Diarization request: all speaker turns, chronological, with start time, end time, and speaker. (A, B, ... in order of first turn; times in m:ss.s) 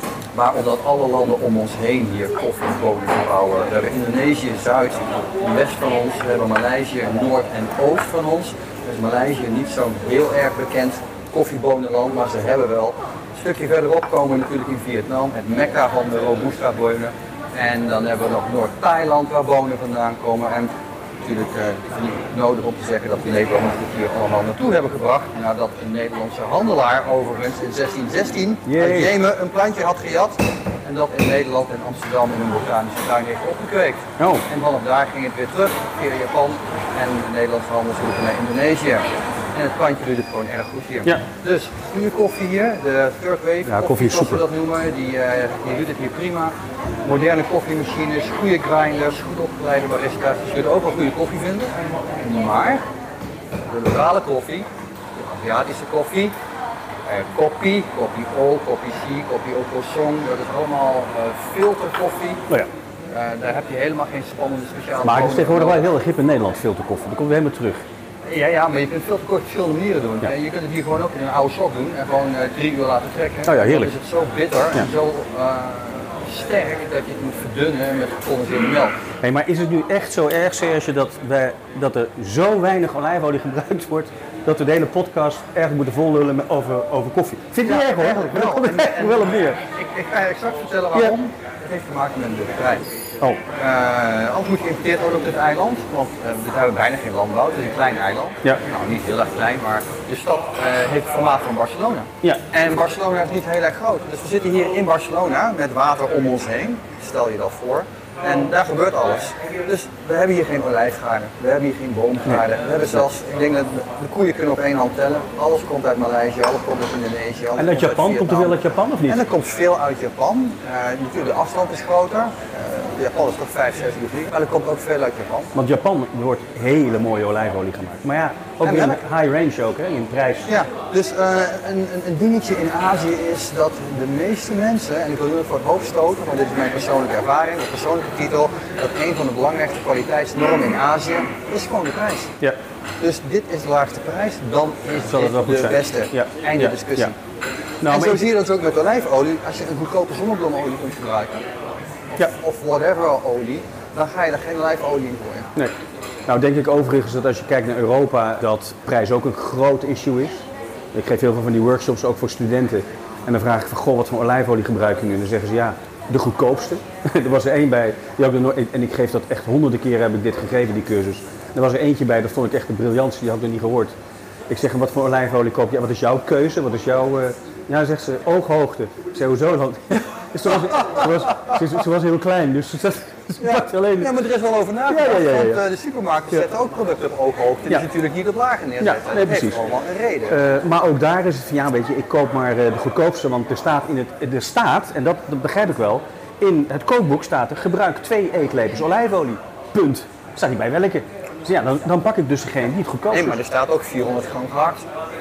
0:00.3-0:52.8 A
0:28.6-0:29.2 B
0:34.2-0:34.4 B
0:43.6-0:44.4 B
0:53.7-0:56.4 A
0:57.1-1:02.4 A
1:03.1-1:05.9 A
1:05.0-1:07.9 B
1:08.2-1:19.0 A
1:13.5-1:13.9 B
1:19.2-1:29.6 B
1:27.6-1:32.9 A
1:33.6-2:05.6 A
1:57.6-1:59.2 B
2:05.6-2:10.5 B
2:08.6-2:09.0 A
2:10.5-2:22.3 A
2:23.0-2:27.2 A
2:25.1-2:27.1 B
2:27.8-2:28.3 B
2:27.9-2:31.5 A
2:32.2-2:35.5 A
2:35.6-2:54.0 B
2:54.5-3:04.1 B
3:00.5-3:01.6 A
3:03.4-3:10.4 A
3:04.9-3:05.6 B
3:08.8-3:09.6 B
3:10.3-3:23.4 B
3:23.1-3:24.9 A